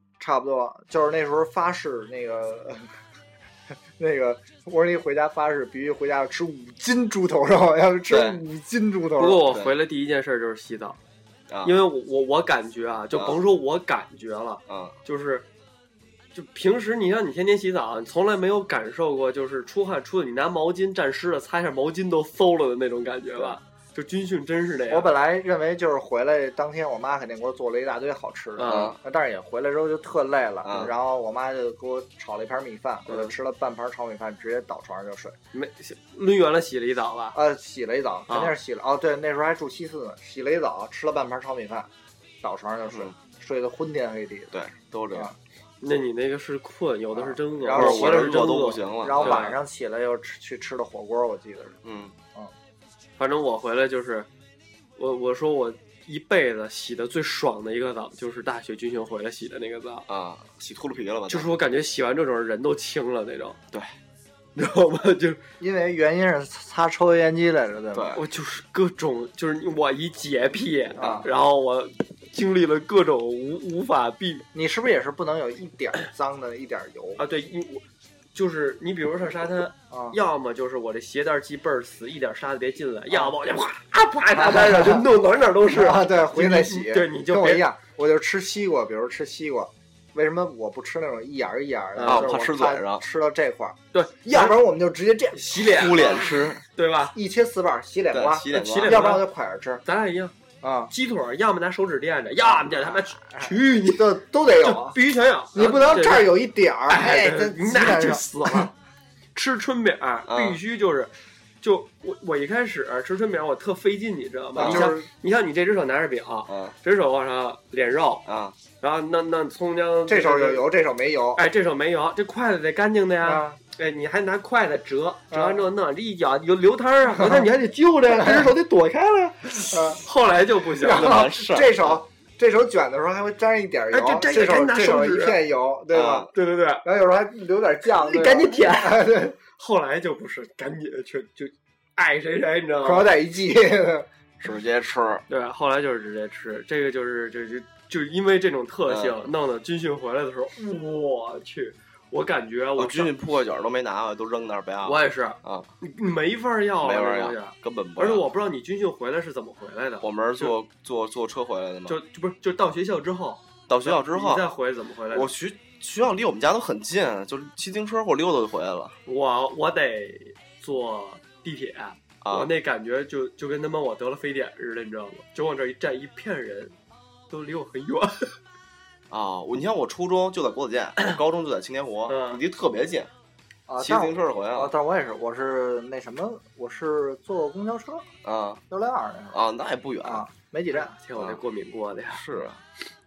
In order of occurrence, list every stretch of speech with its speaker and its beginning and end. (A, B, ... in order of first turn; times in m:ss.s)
0:00.2-0:02.9 A
0:04.0-0:09.5 A
0:08.1-0:08.4 B
0:09.2-0:11.0 C
0:11.5-0:11.8 B
0:11.6-0:15.5 C
0:13.1-0:13.4 B
0:14.7-0:15.0 B
0:16.3-0:25.1 C
0:24.9-0:35.4 A
0:28.6-0:29.0 C
0:28.6-0:29.0 B
0:30.6-0:30.9 B
0:33.1-0:33.3 C
0:35.5-0:37.4 C
0:37.3-0:41.9 A
0:38.3-0:38.6 C
0:42.4-0:44.6 A
0:44.5-0:45.3 B
0:45.8-0:49.6 C
0:47.2-0:51.8 A
0:47.6-0:49.5 B
0:51.8-0:52.1 B
0:53.2-0:54.3 C
0:55.0-1:00.0 C
1:00.1-1:01.5 B
1:01.3-1:03.6 C
1:04.6-1:05.4 C
1:05.6-1:08.2 A
1:07.9-1:08.2 B
1:08.2-1:14.5 C
1:11.0-1:11.3 A
1:14.5-1:17.2 A
1:17.2-1:27.6 C
1:19.9-1:20.2 A
1:24.3-1:25.1 A
1:25.7-1:36.4 A
1:32.0-1:32.3 C
1:32.0-1:33.0 B
1:33.9-1:34.6 C
1:35.3-1:36.2 C
1:35.6-1:36.6 B
1:36.7-1:37.2 C
1:37.1-1:39.8 A
1:38.1-1:39.1 B
1:38.5-1:39.3 C
1:39.8-1:40.4 C
1:40.6-1:40.9 A
1:40.9-1:46.3 C
1:42.4-1:45.0 A
1:45.5-1:48.7 A
1:46.9-1:48.7 C
1:49.4-1:58.2 C
1:50.3-1:50.6 B
1:54.6-1:55.1 A
1:54.6-1:54.9 B
1:56.5-1:56.8 B
1:58.3-1:58.6 B
1:58.8-2:00.6 C
2:00.1-2:01.4 A
2:01.4-2:11.2 C
2:03.2-2:03.6 A
2:05.3-2:05.6 A
2:07.2-2:07.5 A
2:08.1-2:08.5 A
2:09.7-2:10.0 A
2:10.8-2:16.3 A
2:10.8-2:11.9 B
2:13.9-2:15.4 C
2:15.9-2:16.3 B
2:16.3-2:16.8 C
2:16.8-2:19.4 A
2:18.0-2:23.1 C
2:22.8-2:24.1 A
2:24.4-2:25.2 B
2:25.3-2:33.1 C
2:28.9-2:29.3 B
2:32.8-2:35.7 B
2:34.8-2:40.6 C
2:36.8-2:38.3 B
2:40.0-2:42.0 B
2:41.9-2:45.3 C
2:43.7-2:44.4 B
2:45.1-2:49.0 B
2:49.1-2:56.8 C
2:52.2-2:52.5 B
2:57.3-2:58.4 C
2:59.1-3:03.1 B
3:02.1-3:02.4 C
3:03.7-3:08.0 A
3:03.8-3:04.7 B
3:08.2-3:08.6 B
3:08.7-3:09.4 A
3:09.3-3:10.2 B
3:10.0-3:10.9 A
3:10.7-3:12.2 C
3:12.1-3:12.6 B